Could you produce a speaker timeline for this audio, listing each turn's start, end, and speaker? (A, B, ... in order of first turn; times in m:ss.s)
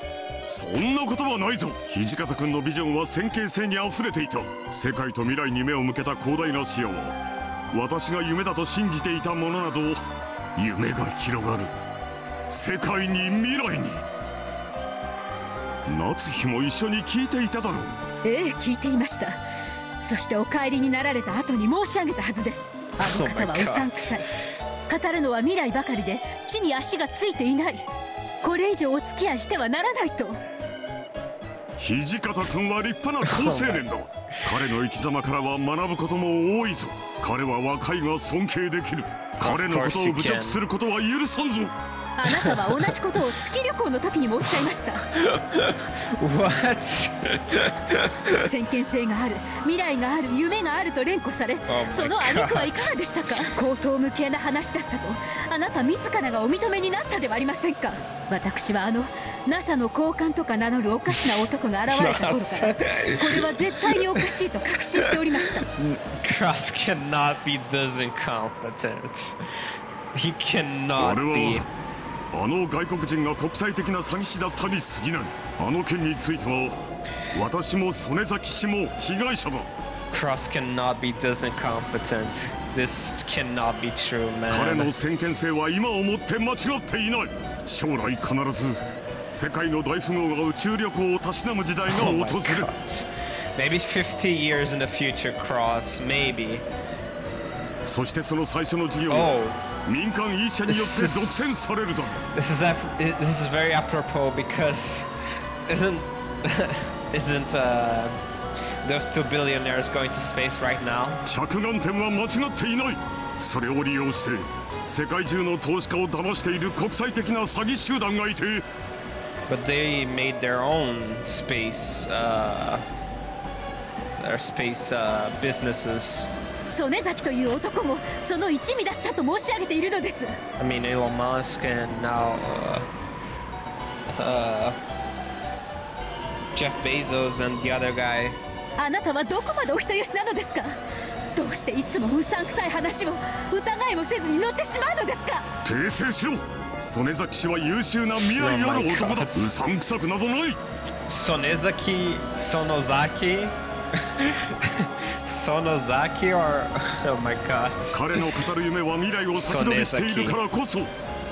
0:00.5-0:07.2 A
0:07.7-0:10.0 A
0:10.6-0:11.7 A
0:12.5-0:14.0 A
0:15.9-0:18.0 A
0:18.2-0:19.4 B
0:20.0-0:24.3 B
0:23.0-0:24.1 C
0:24.9-0:27.9 B
0:28.4-0:30.4 B
0:31.8-0:41.7 A
0:33.3-0:33.8 C
0:39.4-0:40.6 C
0:42.2-0:45.0 B
0:42.3-0:42.6 C
0:45.1-0:48.1 C
0:48.3-1:05.7 B
0:51.7-0:52.9 C
1:01.9-1:04.2 C
1:05.6-1:11.7 C
1:11.0-1:11.7 A
1:12.3-1:16.8 A
1:17.3-1:19.7 A
1:20.1-1:24.9 C
1:24.5-1:32.7 A
1:31.9-1:36.6 C
1:37.8-1:42.2 A
1:39.1-1:39.6 C
1:40.7-1:41.5 C
1:42.3-1:45.1 C
1:45.7-1:48.2 C
1:48.8-1:51.2 C
1:51.3-1:58.7 A
1:59.5-2:02.9 C
2:04.2-2:06.3 C
2:06.7-2:10.4 B
2:10.6-2:12.9 C
2:14.1-2:14.8 C
2:16.5-2:18.4 C
2:18.8-2:20.8 B
2:21.4-2:25.5 B
2:25.6-2:30.6 A
2:28.3-2:29.5 C
2:31.1-2:33.5 C
2:34.0-2:38.2 C
2:37.9-2:40.9 A
2:39.3-2:40.4 C